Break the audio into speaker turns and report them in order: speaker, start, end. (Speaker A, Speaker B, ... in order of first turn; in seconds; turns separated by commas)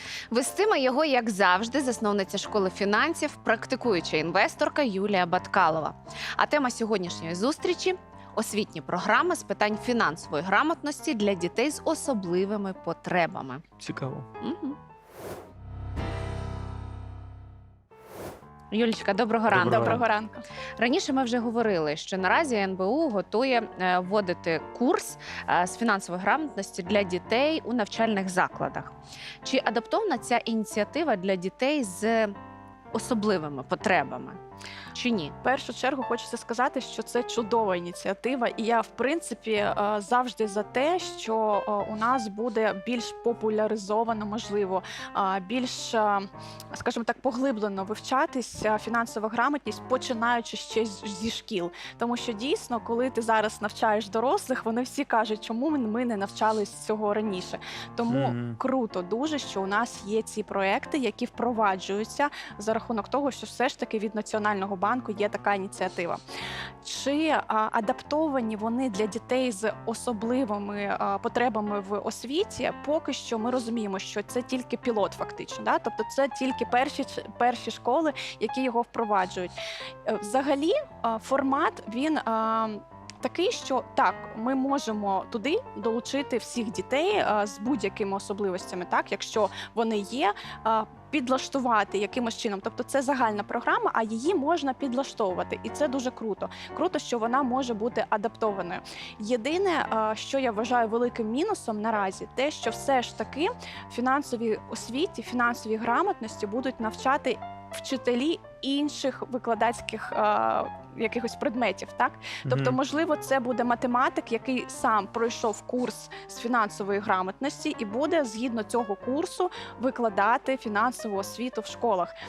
Speaker A: 0.3-13.6, Speaker B: 13.8-14.3, Speaker A: 14.4-14.8, Speaker A: 18.7-20.0, Speaker B: 19.5-20.0, Speaker C: 19.6-20.4, Speaker A: 20.8-28.9, Speaker A: 29.4-32.3, Speaker A: 32.9-34.4, Speaker A: 34.9-35.4, Speaker C: 35.4-66.2, Speaker B: 58.1-58.6, Speaker C: 66.8-79.5, Speaker C: 80.1-122.1, Speaker B: 112.5-112.8